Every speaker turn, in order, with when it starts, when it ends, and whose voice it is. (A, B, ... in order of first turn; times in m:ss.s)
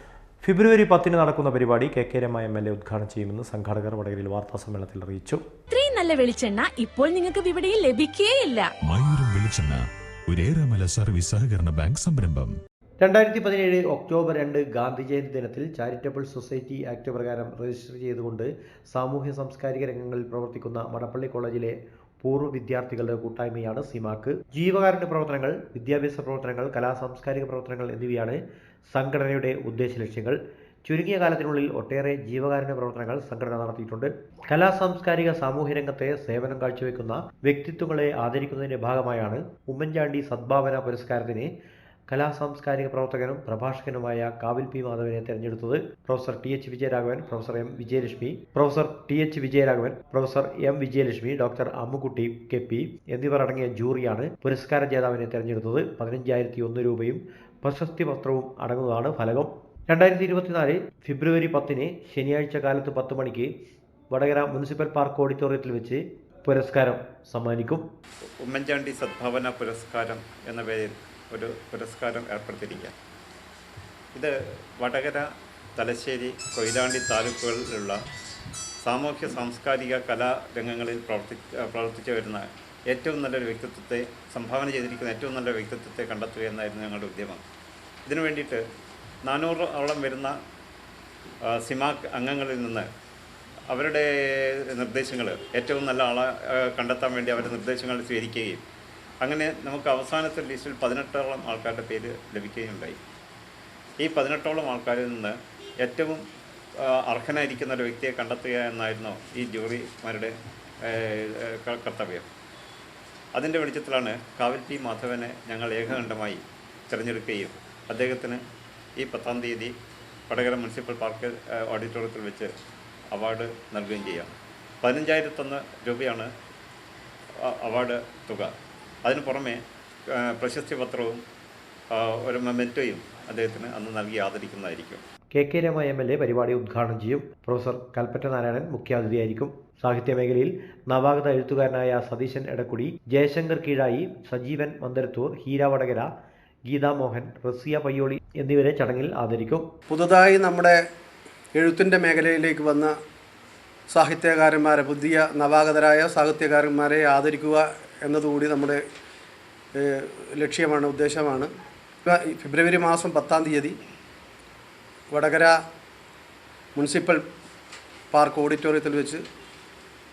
0:00.4-0:05.4 A
0:05.7-0:08.7 B
0:08.8-0:12.5 C
0:13.0-0:28.4 A
0:28.9-0:41.5 A
0:42.1-1:03.5 A
1:04.1-1:07.8 A
1:08.5-1:12.9 D
1:14.2-1:15.2 D
1:15.8-1:18.0 D
1:18.8-1:27.4 D
1:28.1-1:28.6 D
1:29.3-1:30.3 D
1:31.5-1:32.9 D
1:33.7-1:38.6 D
1:39.2-1:43.0 D
1:44.0-1:46.2 D
1:47.0-1:50.3 D
1:50.8-1:52.3 D
1:53.4-1:58.4 D
1:59.0-1:59.7 D
2:00.3-2:02.5 D
2:03.1-2:06.3 D
2:07.6-2:08.5 D
2:09.0-2:09.6 D
2:10.2-2:11.2 D
2:11.9-2:15.0 D
2:15.3-2:26.1 A
2:26.7-2:29.6 A
2:29.9-2:30.8 E
2:31.6-2:32.9 E
2:33.9-2:38.8 E
2:39.8-2:41.5 E
2:42.1-2:43.8 E
2:45.1-2:45.6 E
2:46.8-2:47.2 E
2:48.1-2:49.2 E